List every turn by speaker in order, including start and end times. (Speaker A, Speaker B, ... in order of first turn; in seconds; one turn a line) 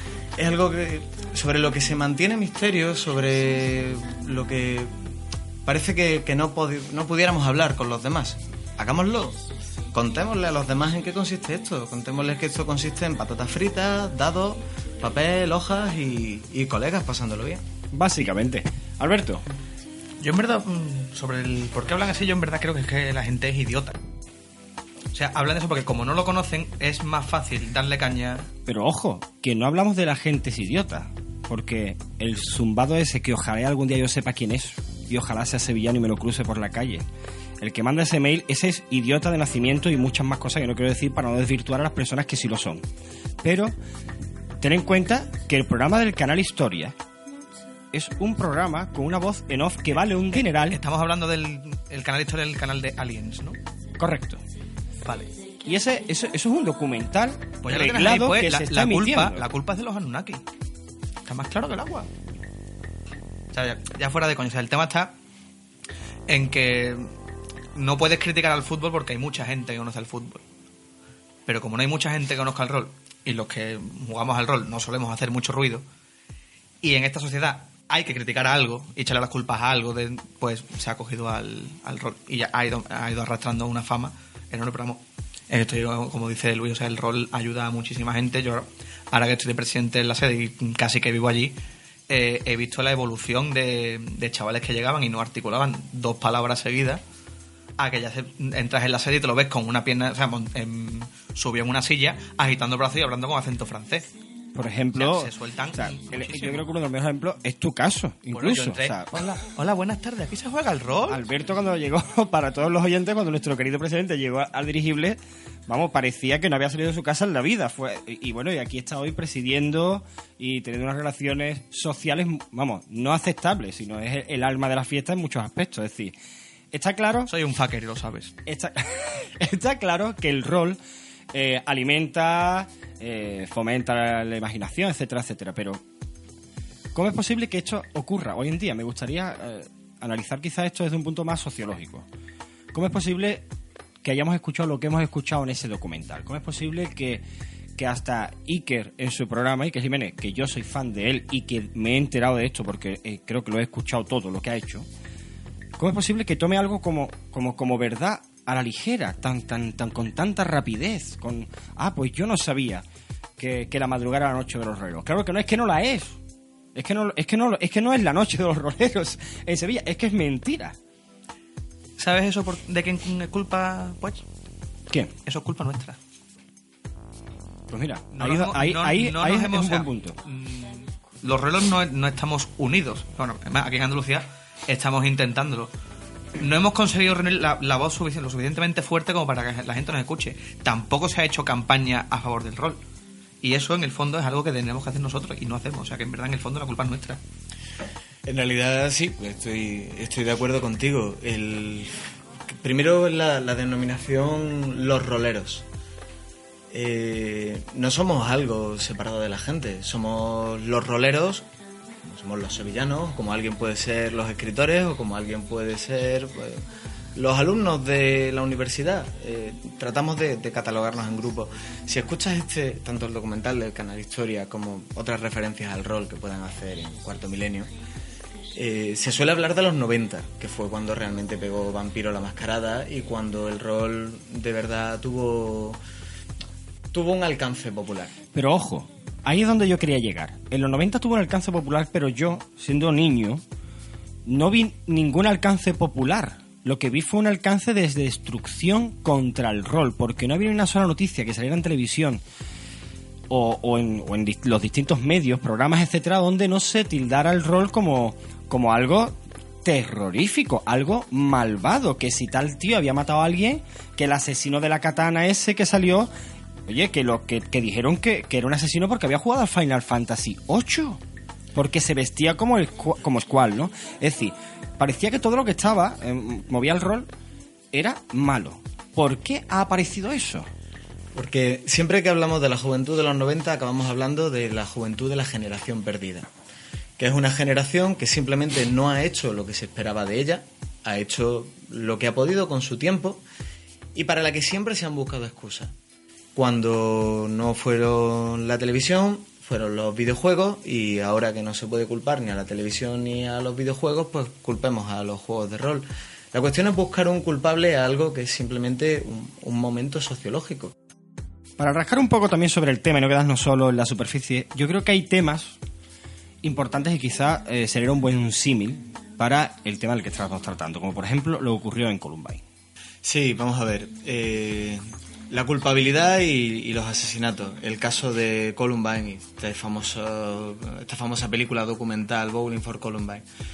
Speaker A: 0.3-4.9
Speaker A: 5.6-9.4
Speaker A: 9.9-17.6
Speaker B: 17.9-19.4
Speaker C: 20.2-24.0
Speaker C: 25.1-28.5
Speaker B: 28.6-37.0
Speaker B: 37.6-42.9
Speaker B: 43.4-43.7
Speaker B: 44.6-46.9
Speaker B: 47.9-50.8
Speaker C: 50.3-53.6
Speaker B: 54.0-54.4
Speaker C: 55.0-55.3
Speaker B: 55.6-59.5
Speaker C: 57.6-60.4
Speaker C: 61.2-62.1
Speaker C: 63.5-65.1
Speaker C: 66.3-67.1
Speaker C: 67.8-70.4
Speaker C: 71.5-75.8
Speaker C: 76.8-91.6
Speaker C: 92.1-97.0
Speaker C: 97.8-104.1
Speaker B: 104.5-109.4
Speaker C: 104.9-106.6
Speaker C: 108.3-111.2
Speaker B: 111.1-126.1
Speaker B: 126.7-127.3
Speaker C: 127.3-128.3
Speaker B: 128.4-130.8
Speaker B: 131.3-135.8
Speaker B: 136.9-142.1
Speaker B: 142.7-143.4
Speaker B: 144.0-147.2
Speaker B: 147.8-154.9
Speaker B: 155.8-162.8
Speaker B: 163.4-166.2
Speaker B: 166.7-170.8
Speaker C: 172.0-174.2
Speaker C: 175.2-176.0
Speaker B: 177.7-180.2
Speaker C: 178.1-185.7
Speaker C: 186.4-192.8
Speaker C: 193.4-197.2
Speaker A: 198.2-205.6
Speaker A: 206.7-211.4
Speaker A: 212.0-216.6
Speaker A: 217.2-227.7
Speaker A: 228.5-235.8
Speaker A: 236.9-238.2
Speaker B: 238.3-243.4
Speaker B: 244.2-252.2
Speaker B: 253.3-266.1
Speaker B: 266.7-271.0
Speaker B: 271.5-277.1
Speaker B: 277.7-280.5
Speaker A: 281.1-286.3
Speaker A: 287.0-293.2
Speaker A: 293.9-295.7
Speaker A: 296.3-310.7
Speaker B: 311.6-315.6
Speaker B: 316.4-322.4
Speaker A: 323.0-333.2